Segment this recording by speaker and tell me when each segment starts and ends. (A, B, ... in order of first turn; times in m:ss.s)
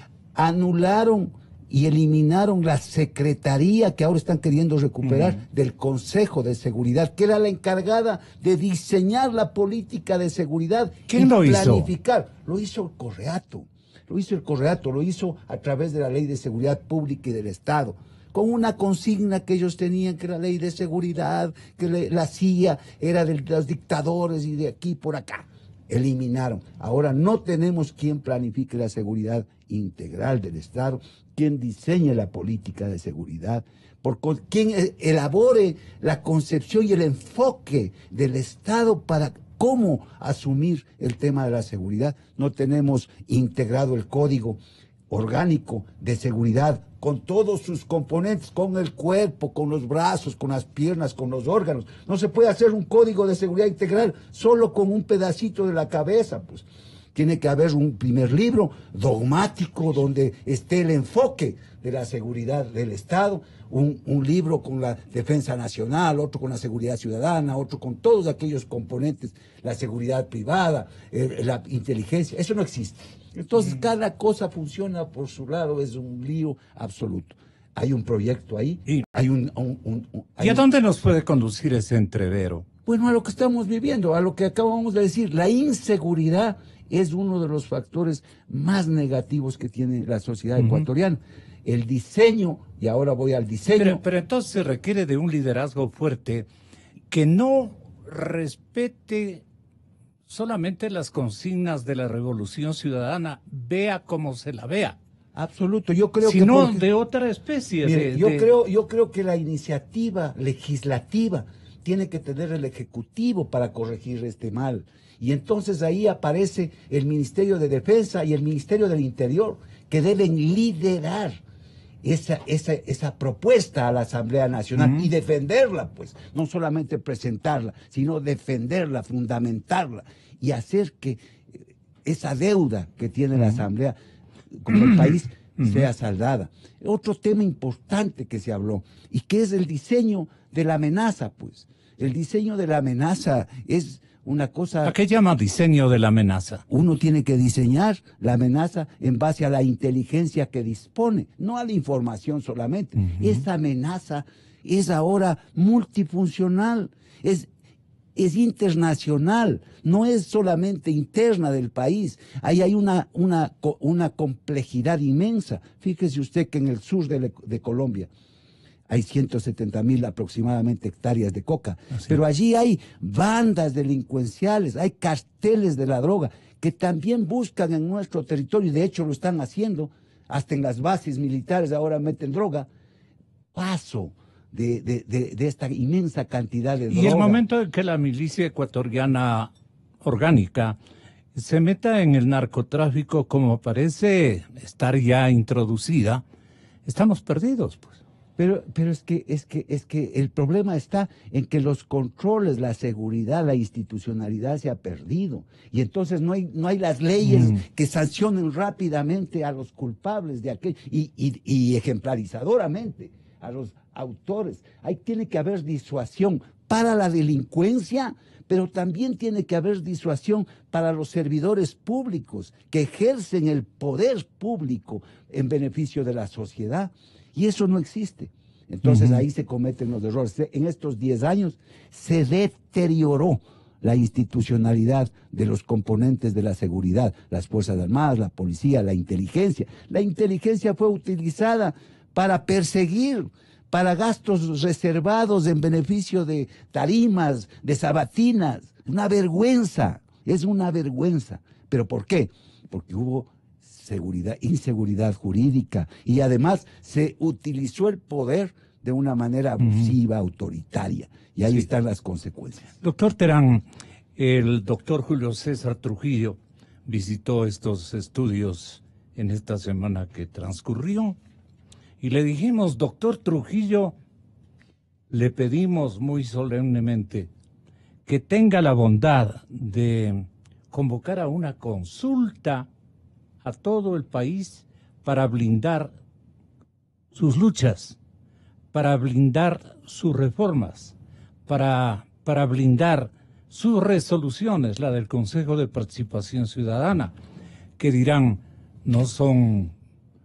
0:00.3-1:20.7 A
0:05.0-0:05.4 B
0:11.1-0:11.9 B
1:20.4-1:22.6 B
1:22.8-1:34.0 A
1:30.6-1:30.8 B
1:33.7-1:36.5 B
1:37.1-1:39.4 B
1:40.3-1:45.0 B
1:45.3-1:46.8 A
1:46.2-1:48.5 B
1:47.8-2:01.4 A
2:02.0-2:14.0 A
2:04.8-2:05.0 B
2:13.4-2:13.6 B
2:14.5-2:24.9 A
2:14.7-2:15.8 B
2:24.8-2:26.6 B
2:26.7-2:37.5 A
2:33.0-2:33.4 B
2:38.1-2:48.1 A
2:48.9-3:02.7 A
3:03.5-3:07.4 A
3:06.9-3:09.5 B
3:10.0-3:10.8 B
3:11.3-3:16.2 B
3:16.8-3:18.0 B
3:18.4-4:22.7 A
3:27.2-3:27.6 B
3:48.8-3:49.2 B
4:19.6-4:19.9 B
4:22.8-4:23.6 B
4:24.2-4:31.2 B
4:32.0-4:33.9 B
4:35.1-4:37.3 B
4:38.0-4:42.7 B
4:43.4-4:45.9 B
4:47.1-4:48.0 B
4:48.7-4:50.9 B
4:51.5-4:57.1 B
4:57.8-4:59.7 B